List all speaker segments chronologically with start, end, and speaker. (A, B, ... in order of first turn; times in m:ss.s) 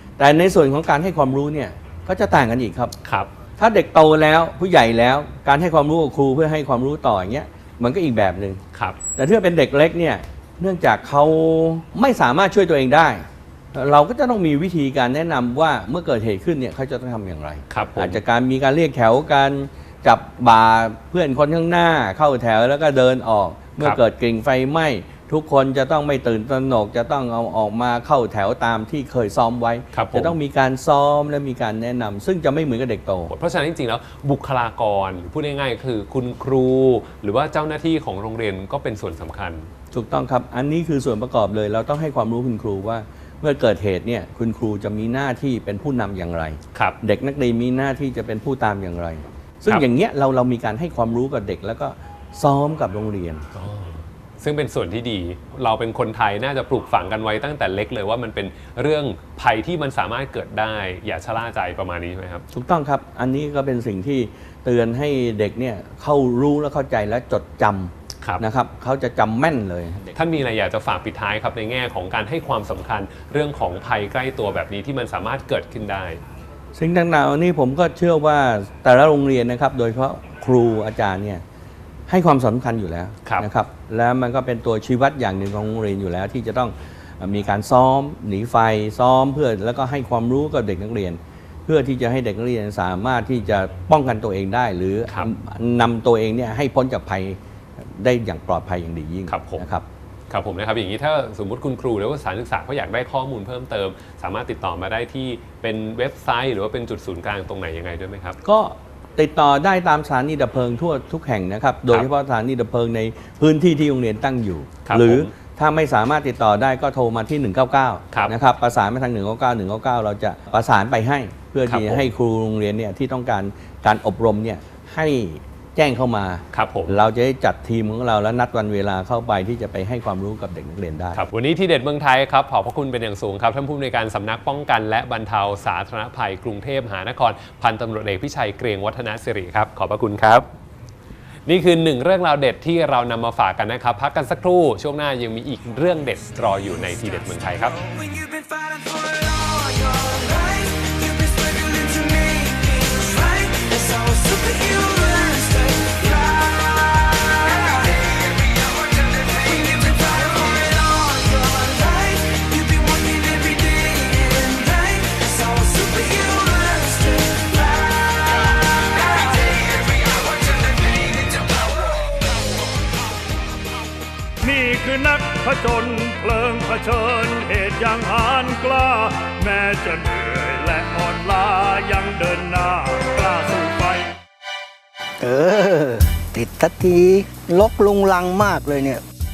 0:00.2-0:02.9 A
0:03.0-0:03.3 B
0:03.6-0:08.6 A
0:09.2-0:33.3 A
0:17.7-0:18.2 B
0:29.9-0:30.4 B
0:33.3-0:39.7 B
0:39.9-0:53.4 A
0:53.5-1:02.4 B
1:02.5-1:10.2 A
1:10.1-1:16.2 B
1:16.7-1:21.4 A
1:22.1-1:37.4 A
1:38.0-1:39.8 A
1:39.3-1:39.7 B
1:40.3-1:48.4 B
1:48.4-2:11.2 A
1:54.8-1:55.3 B
2:01.7-2:02.1 B
2:06.5-2:07.0 B
2:11.1-2:20.4 B
2:21.5-2:27.8 B
2:54.4-3:04.1 C
3:05.2-3:09.0 D